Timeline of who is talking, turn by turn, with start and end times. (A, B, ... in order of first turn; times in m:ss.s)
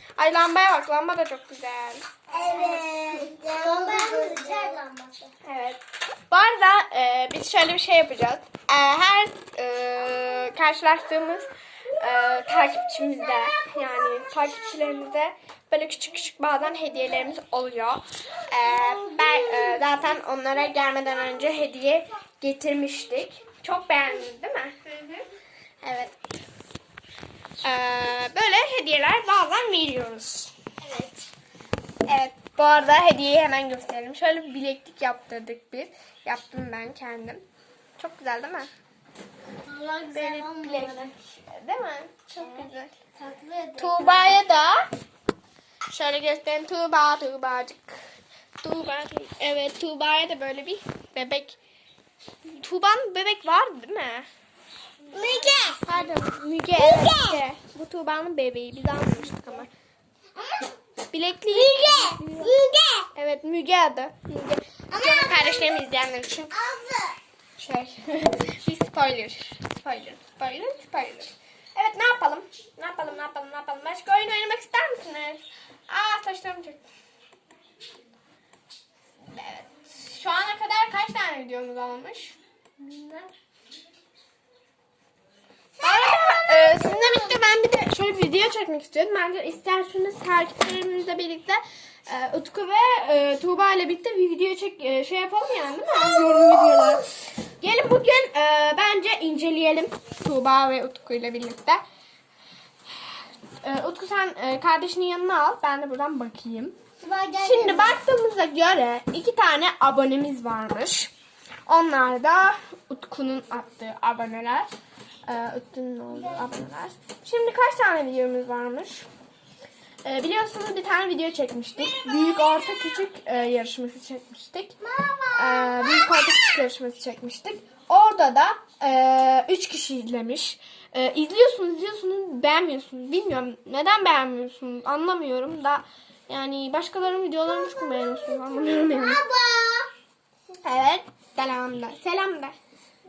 0:00.2-0:04.7 A
0:02.3-0:05.3 B
0:05.4-0:11.5 A
0:12.0-0:25.1 A
0:25.8-0:26.1 A
0:27.6-0:30.5 A
0:30.8-0:31.2 B
0:32.0-0:37.4 A
0:38.0-0:38.7 A
0:39.6-0:41.1 B
0:40.1-0:42.9 A
0:42.4-0:44.4 B
0:43.8-0:44.8 A
0:45.9-0:48.0 A
0:48.6-0:51.6 A
0:52.4-0:54.3 A
0:55.1-0:56.0 B
0:55.5-0:59.7 A
0:56.7-0:57.4 B
1:00.4-1:00.7 B
1:01.1-1:02.5 A
1:01.5-1:03.1 B
1:03.1-1:06.5 A
1:04.9-1:05.8 B
1:06.5-1:07.2 B
1:07.6-1:16.8 A
1:19.3-1:22.4 A
1:22.8-1:23.3 B
1:25.8-1:37.0 A
1:26.1-1:27.4 B
1:35.9-1:37.1 B
1:37.6-1:41.8 A
1:43.6-1:46.8 A
1:47.0-1:48.0 B
1:47.4-1:51.1 A
1:51.6-1:54.7 A
1:55.3-1:59.1 A
2:00.0-2:04.8 A
2:04.8-2:06.2 B
2:05.3-2:19.2 A
2:17.8-2:19.9 B
2:20.6-2:22.5 A